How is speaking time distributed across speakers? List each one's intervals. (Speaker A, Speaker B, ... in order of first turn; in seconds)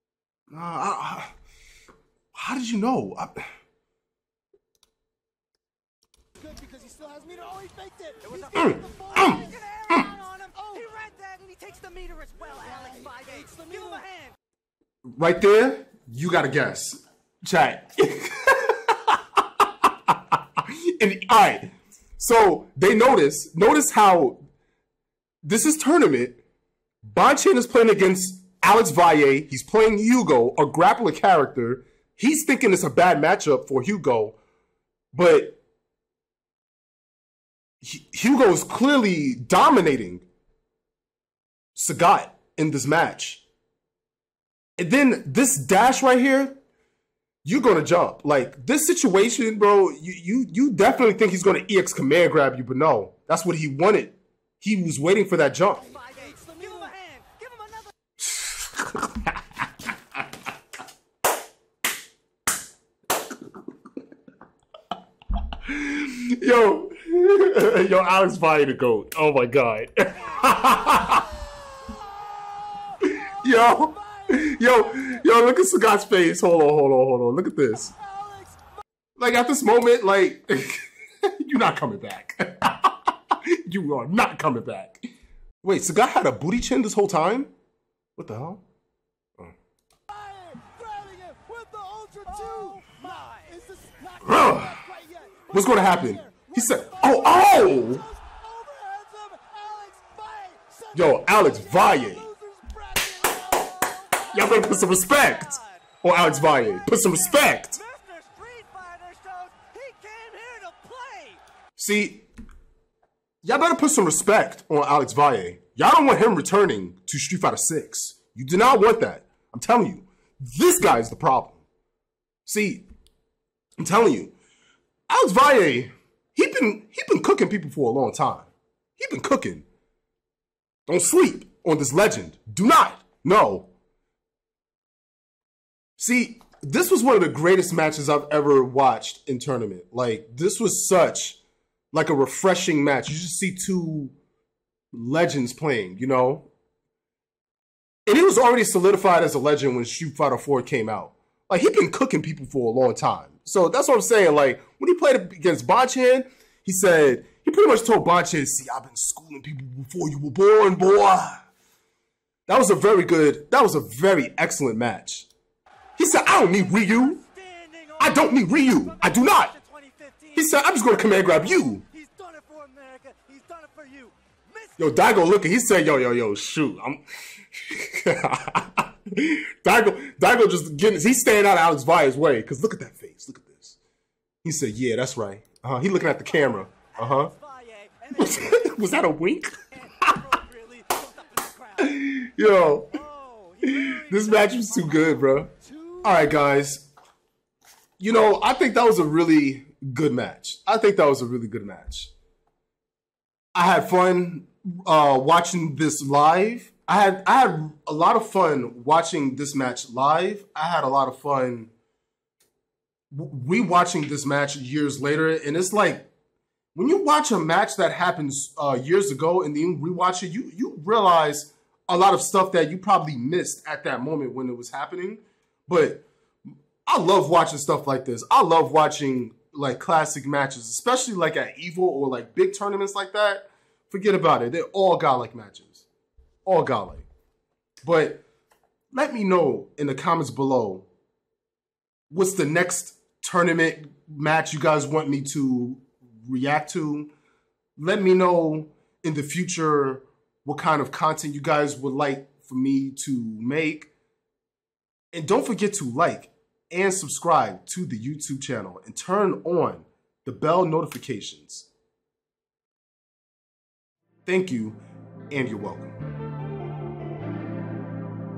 Speaker A: 0.5-1.3, 2.3-3.5, 8.5-10.1, 15.1-24.4, 25.4-26.4, 27.0-34.4, 35.1-35.6, 37.8-40.3, 41.8-43.5, 44.8-46.6, 47.4-55.9, 58.2-59.4, 65.6-71.3, 73.0-77.9, 79.2-85.1, 85.6-87.5, 88.2-88.6, 94.2-94.8, 95.5-98.0, 100.9-102.3, 104.3-107.8, 111.8-112.3, 113.4-121.6, 122.5-122.9, 123.8-124.3, 125.1-129.7, 130.9-133.7, 136.0-141.4, 141.9-144.1, 144.9-146.5, 148.1-161.4, 162.5-165.3, 166.0-167.2, 168.0-169.5, 170.3-171.8, 174.8-183.8, 184.4-187.3, 188.2-190.2, 191.8-193.0, 193.6-195.5, 196.0-196.9, 198.0-202.1, 203.5-211.7, 213.1-216.1, 216.8-226.1, 226.9-235.9, 236.4-237.1, 237.8-238.2, 238.9-240.9, 242.1-247.1, 247.8-253.9, 255.1-261.7, 264.3-266.0
Speaker B: 6.4-9.6, 10.6-10.9, 12.5-14.0, 55.7-56.9, 71.9-75.2, 77.8-78.8, 90.1-104.5, 195.5-196.4
Speaker C: 8.2-14.4, 55.8-57.9, 92.3-93.5, 104.3-105.9, 106.9-111.4, 166.8-175.0, 186.2-189.0, 189.7-192.2, 192.9-195.2